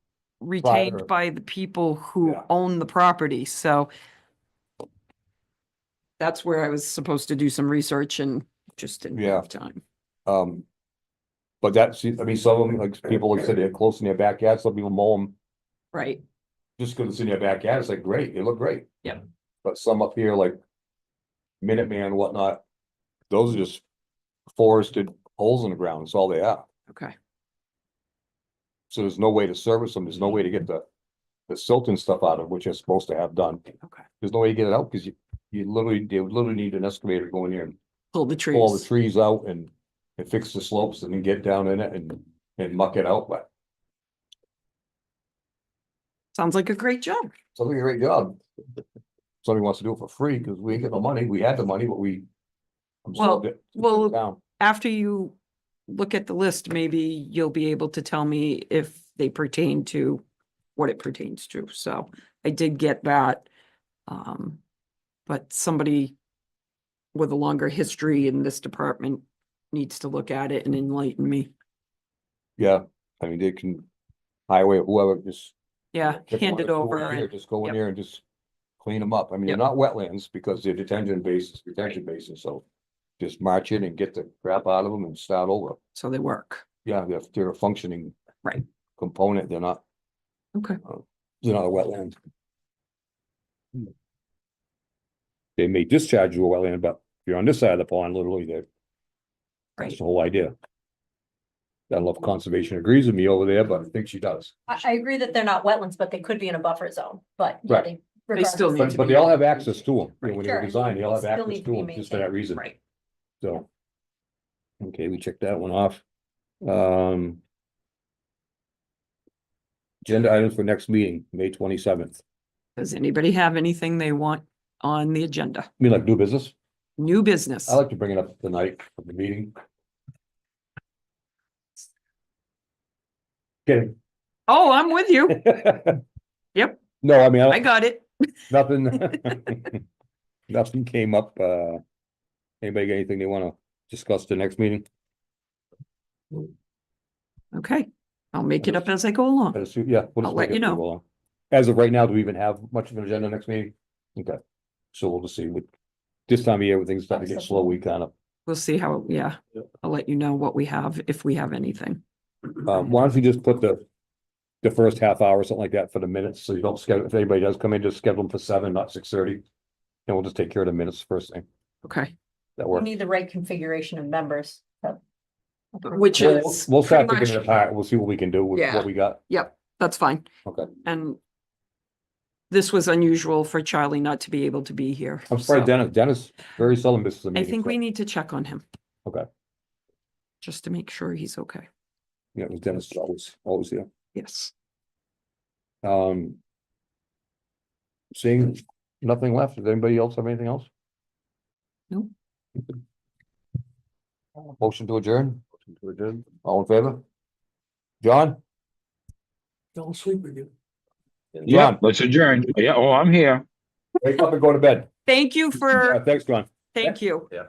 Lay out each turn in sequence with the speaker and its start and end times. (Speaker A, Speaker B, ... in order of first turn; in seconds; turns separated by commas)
Speaker A: 0.4-3.9, Speaker B: 0.6-1.1, Speaker A: 6.2-9.8, Speaker B: 9.2-9.4, Speaker B: 10.3-10.7, Speaker B: 11.6-15.3, Speaker A: 15.9-16.2, Speaker B: 16.8-18.9, Speaker B: 19.6-20.6, Speaker B: 21.6-22.6, Speaker B: 23.3-23.8, Speaker B: 24.5-26.7, Speaker B: 28.9-30.8, Speaker B: 31.5-33.7, Speaker B: 34.2-37.8, Speaker A: 38.1-38.9, Speaker B: 38.5-43.5, Speaker A: 46.3-47.3, Speaker B: 47.5-48.4, Speaker B: 49.4-52.2, Speaker B: 53.0-54.4, Speaker A: 53.2-55.3, Speaker A: 55.9-60.2, Speaker A: 60.8-63.5, Speaker A: 64.1-64.6, Speaker A: 65.3-66.1, Speaker A: 67.2-71.5, Speaker B: 72.6-73.9, Speaker B: 74.5-75.5, Speaker A: 75.9-77.8, Speaker B: 76.2-78.2, Speaker B: 78.8-82.6, Speaker B: 83.2-85.8, Speaker A: 86.0-86.7, Speaker B: 86.8-88.2, Speaker B: 89.0-89.8, Speaker B: 90.8-92.2, Speaker B: 95.6-98.7, Speaker B: 99.8-100.5, Speaker B: 101.9-104.7, Speaker C: 104.7-109.1, Speaker A: 108.3-110.0, Speaker B: 108.8-112.7, Speaker C: 110.2-112.8, Speaker B: 113.4-113.7, Speaker B: 114.8-116.0, Speaker B: 116.6-117.4, Speaker B: 120.0-122.2, Speaker A: 122.8-125.7, Speaker B: 125.8-126.5, Speaker A: 127.0-127.8, Speaker B: 127.7-129.5, Speaker B: 133.7-133.9, Speaker A: 134.5-135.5, Speaker B: 135.4-136.0, Speaker A: 136.6-136.8, Speaker B: 137.0-137.7, Speaker A: 137.5-138.1, Speaker B: 138.5-139.8, Speaker B: 140.5-141.8, Speaker B: 142.6-144.8, Speaker A: 147.5-149.6, Speaker B: 148.6-148.9, Speaker B: 149.5-154.4, Speaker A: 150.2-150.8, Speaker B: 154.9-155.7, Speaker B: 156.3-158.1, Speaker C: 157.1-157.8, Speaker A: 158.5-162.0, Speaker B: 162.7-163.8, Speaker B: 164.6-169.4, Speaker B: 170.1-171.4, Speaker A: 171.8-172.1, Speaker B: 172.6-172.9, Speaker C: 172.7-175.0, Speaker C: 175.8-176.4, Speaker A: 175.9-177.6, Speaker B: 176.2-179.2, Speaker A: 178.5-180.3, Speaker B: 180.5-180.7, Speaker A: 180.8-181.2, Speaker A: 182.5-185.7, Speaker B: 185.3-187.8, Speaker A: 187.3-188.6, Speaker A: 190.4-191.7, Speaker B: 192.3-193.9, Speaker A: 194.2-194.5, Speaker B: 195.8-196.4, Speaker B: 198.2-200.7, Speaker B: 204.6-207.0, Speaker B: 208.0-208.4, Speaker B: 211.4-211.8, Speaker D: 211.4-213.4, Speaker B: 214.0-214.9, Speaker A: 215.1-216.0, Speaker B: 215.7-216.9, Speaker A: 216.7-217.3